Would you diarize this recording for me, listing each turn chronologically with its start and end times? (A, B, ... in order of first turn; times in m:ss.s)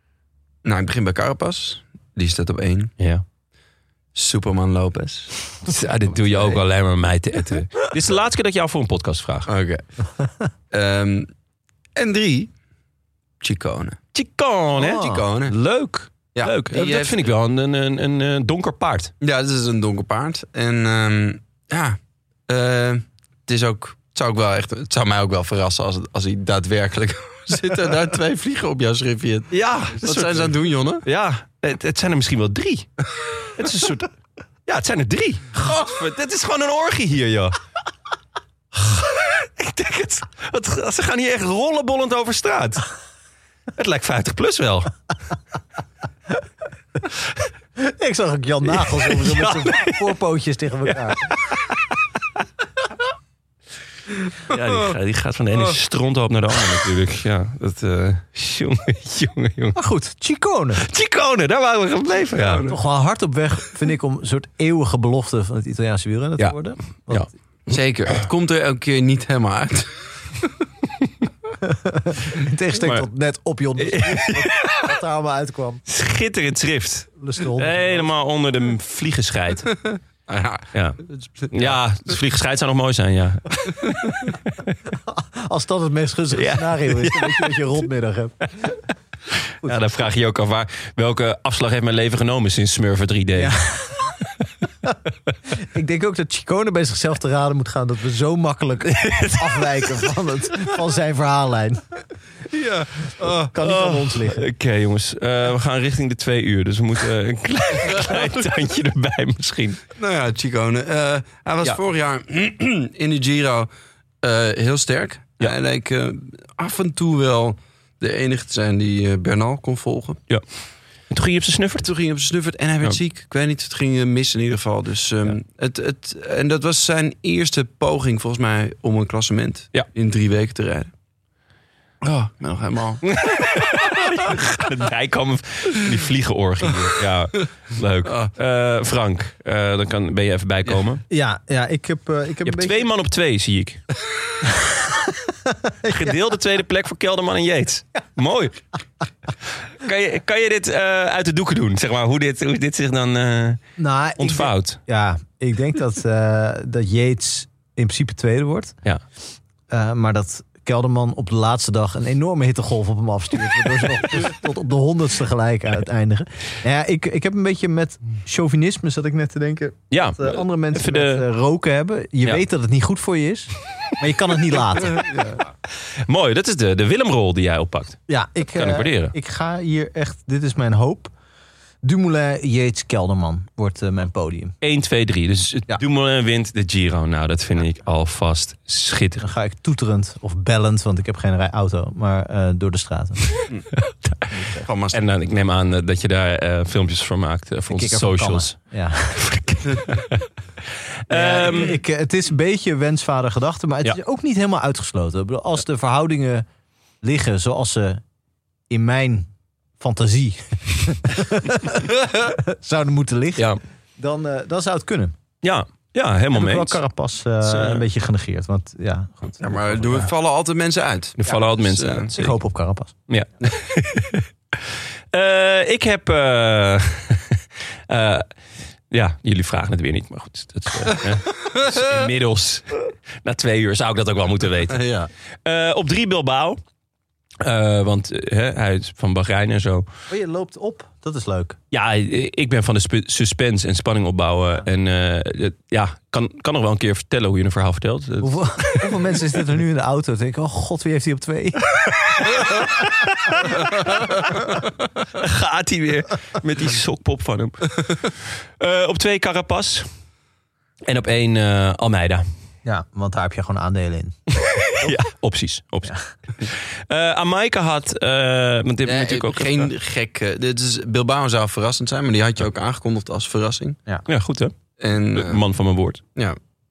0:00.6-0:02.9 A
0:03.0-0:03.2 B
0:04.2-0:05.7 A
0:05.6-0:09.5 B
0:06.3-0:06.6 A
0:09.5-0:09.8 A
0:10.7-0:11.3 A
0:12.0-0:12.5 A
0:13.4-0:14.0 A
0:14.1-0:19.1 B
0:14.8-0:15.6 A
0:16.4-0:17.3 A
0:19.2-0:31.0 A
0:29.5-0:32.9 B
0:33.6-0:34.1 B
0:34.7-0:37.6 B
0:38.7-0:42.9 B
0:43.8-0:44.9 B
0:47.8-0:51.4 C
0:48.7-0:50.2 B
0:50.8-0:51.9 B
0:54.5-0:59.8 B
0:59.8-1:00.8 C
1:00.8-1:02.7 B
1:02.4-1:02.8 A
1:02.6-1:07.3 C
1:07.7-1:09.9 A
1:11.6-1:15.8 C
1:12.8-1:13.0 B
1:13.8-1:14.9 B
1:15.9-1:19.8 B
1:17.2-1:18.1 C
1:20.3-1:21.7 A
1:20.7-1:24.7 B
1:24.9-1:28.8 C
1:26.3-1:27.6 B
1:29.6-1:33.6 B
1:33.4-1:34.2 C
1:35.5-1:41.8 C
1:38.9-1:39.7 B
1:42.5-1:43.5 A
1:43.2-1:44.5 C
1:43.6-1:49.8 B
1:50.0-1:53.7 A
1:54.2-2:00.2 A
2:01.1-2:01.9 B
2:01.8-2:10.9 A
2:12.0-2:13.1 A
2:13.0-2:21.0 B
2:21.1-2:22.9 C
2:22.4-2:23.8 B
2:25.3-2:26.2 C
2:25.9-2:28.6 B
2:29.8-2:33.6 B
2:33.8-2:38.8 C
2:34.2-2:34.8 B
2:39.7-2:55.3 C
2:49.9-2:51.2 B
2:56.1-2:59.1 B
2:58.1-3:01.1 C
3:01.8-3:04.6 C
3:04.6-3:09.3 B
3:09.2-3:13.4 C
3:13.8-3:14.3 B
3:14.3-3:14.7 C
3:14.6-3:15.0 A
3:14.9-3:18.6 B
3:17.7-3:19.3 C
3:19.1-3:20.2 B
3:21.1-3:21.8 B
3:21.1-3:26.5 C
3:27.0-3:28.0 C
3:28.7-3:29.3 C
3:29.8-3:35.1 C
3:35.4-3:36.8 B
3:36.3-3:40.1 C
3:37.4-3:37.8 B
3:39.4-3:42.1 A
3:41.2-3:42.4 B
3:42.1-3:42.9 C
3:43.1-3:44.3 B
3:45.1-3:48.3 B
3:48.9-3:54.8 B
3:51.4-3:51.8 A
3:54.7-3:55.1 A
3:55.4-3:56.6 B
3:57.4-3:59.8 B
4:00.1-4:01.6 C
4:01.7-4:09.1 B
4:08.2-4:12.6 C
4:12.3-4:14.2 B
4:15.1-4:19.9 B
4:20.9-4:22.2 B
4:22.6-4:24.2 C
4:24.4-4:29.7 B
4:28.8-4:33.8 A
4:34.1-4:34.5 B
4:34.8-4:35.4 A
4:35.1-4:36.0 B